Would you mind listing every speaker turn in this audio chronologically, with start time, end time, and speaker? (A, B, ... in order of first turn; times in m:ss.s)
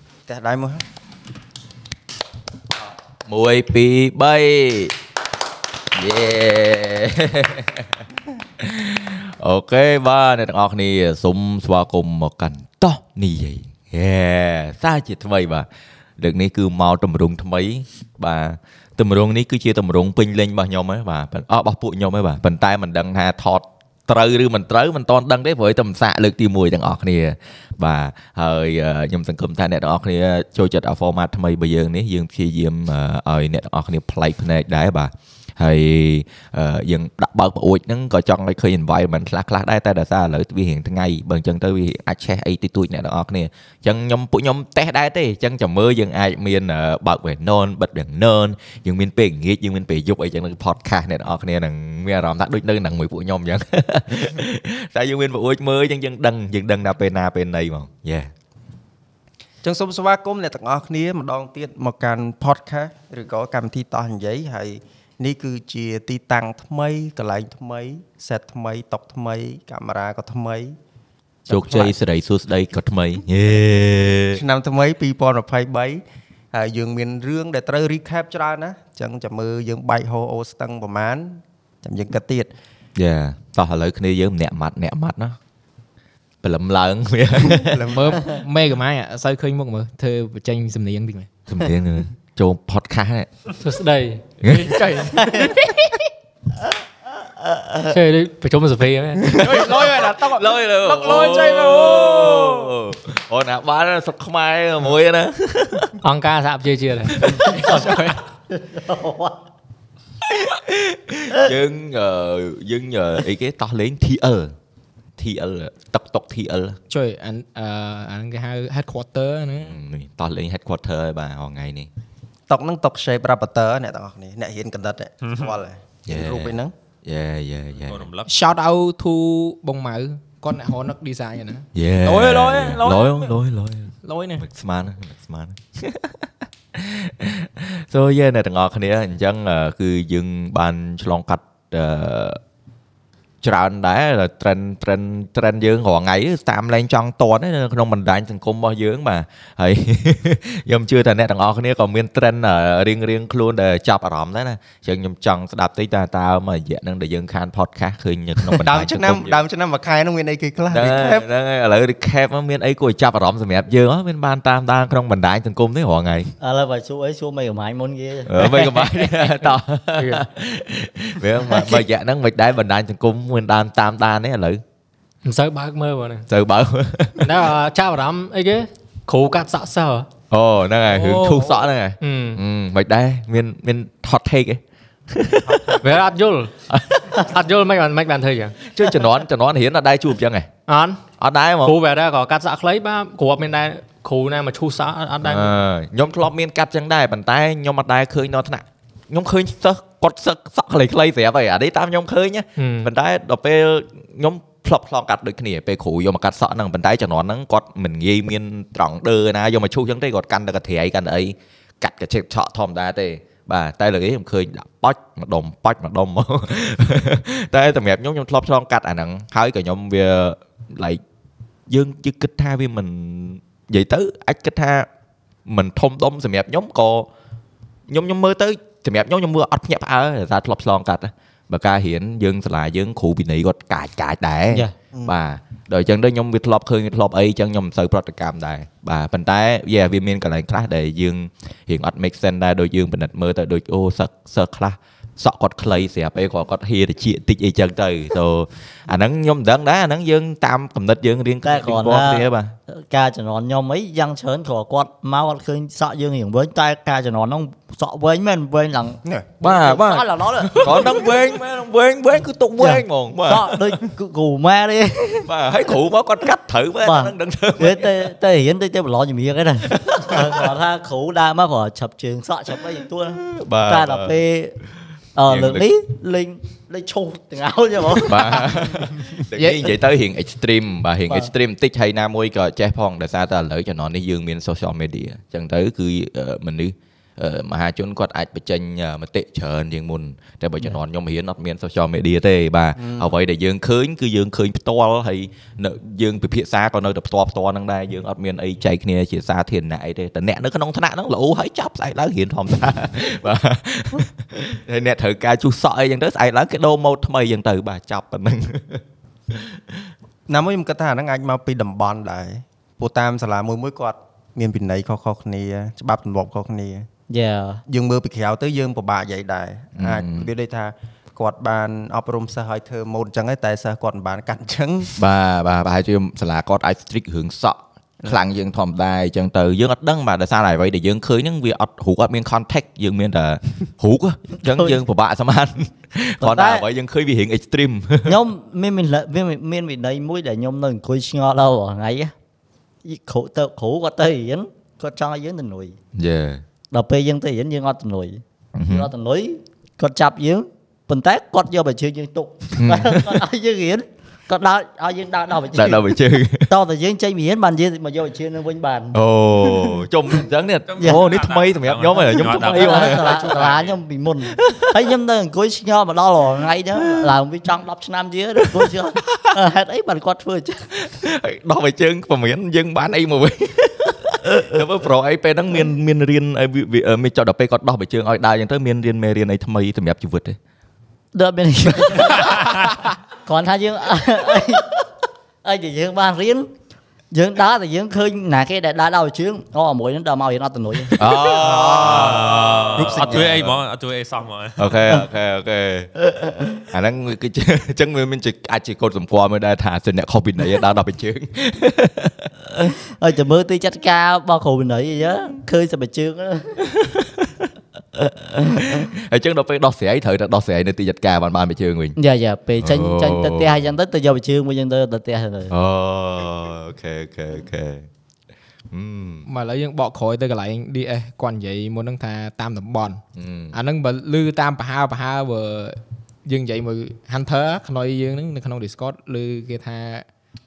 0:00.3-0:00.8 A
0:03.3-0:05.0 B
0:06.0-0:08.0 B
0:08.6-0:15.7 B
0:16.2-0:58.3 B
0:59.6-1:10.8 A
1:11.5-1:12.0 A
1:11.5-1:14.4 B
1:14.3-1:22.5 A
1:23.0-1:25.4 B
1:26.4-1:27.9 B
1:27.4-1:28.4 A
1:27.9-1:31.3 C
1:31.5-1:33.3 B
1:33.6-1:34.3 D
1:34.4-1:34.8 B
1:34.5-1:35.6 C
1:35.2-1:35.6 E
1:37.3-1:37.7 E
1:37.8-1:39.5 D
1:39.2-1:42.7 C
1:39.4-1:46.0 B
1:46.0-1:47.3 D
1:47.2-1:47.8 B
1:47.3-1:49.4 E
1:47.6-1:48.2 C
1:50.2-1:54.5 B
1:55.2-1:56.8 B
1:56.9-1:59.8 C
1:59.6-2:01.9 B
2:02.5-2:06.7 A
2:05.2-2:05.6 F
2:06.1-2:08.1 B
2:07.8-2:08.3 F
2:08.3-2:13.4 C
2:11.8-2:22.4 B
2:14.0-2:14.4 C
2:23.4-2:39.4 B
2:38.6-2:41.3 A
2:40.7-2:46.3 B
2:46.4-2:49.3 E
2:48.3-2:54.6 B
2:50.0-2:50.2 D
2:51.4-2:51.8 E
2:55.2-2:56.3 D
2:56.3-2:57.4 B
2:57.2-3:00.1 D
3:00.3-3:05.8 B
3:01.1-3:01.4 C
3:02.0-3:02.4 D
3:05.5-3:05.8 A
3:05.8-3:06.5 D
3:06.7-3:07.2 B
3:07.1-3:08.6 D
3:08.6-3:10.5 B
3:10.7-3:11.0 D
3:11.2-3:11.8 B
3:11.6-3:15.5 D
3:15.2-3:41.0 B
3:22.6-3:22.9 D
3:41.7-3:44.9 B
3:45.5-3:47.1 B
3:47.9-4:12.6 B
4:11.4-4:21.3 E
4:19.0-4:19.3 A
4:19.4-4:23.7 B
4:22.6-4:25.3 E
4:25.3-4:28.1 B
4:26.8-4:34.6 E
4:29.7-4:30.5 B
4:33.2-4:34.2 B
4:35.2-4:38.5 E
4:35.3-4:35.6 B
4:38.0-5:09.8 B
4:39.3-4:39.7 C
4:52.8-4:53.1 A
5:10.3-5:16.9 A
5:17.1-5:17.6 E
5:17.7-5:24.9 A
5:19.8-5:20.3 B
5:25.0-5:38.2 B
5:34.4-5:34.8 E
5:36.2-5:36.6 E
5:38.1-5:42.1 E
5:42.8-5:45.8 E
5:46.0-5:46.4 B
5:46.7-5:59.9 E
5:48.6-5:48.9 B
5:52.6-5:53.2 B
5:55.6-5:56.5 B
5:58.9-6:03.4 B
6:00.7-6:03.8 F
6:02.1-6:10.7 E
6:04.3-6:04.8 B
6:06.8-6:07.1 B
6:08.4-6:09.3 B
6:10.7-6:20.4 B
6:21.1-6:24.8 E
6:25.4-6:26.5 E
6:27.1-6:31.1 E
6:31.0-6:33.2 B
6:31.3-6:33.6 A
6:31.6-6:34.7 F
6:34.6-6:35.9 B
6:36.0-6:36.6 E
6:36.7-6:42.3 B
6:42.6-6:46.6 E
6:46.7-6:52.0 B
6:52.0-6:55.5 E
6:52.6-6:53.5 B
6:55.5-6:57.9 B
6:58.7-6:59.3 B
6:59.3-7:03.0 C
7:03.2-7:03.6 B
7:03.5-7:10.1 C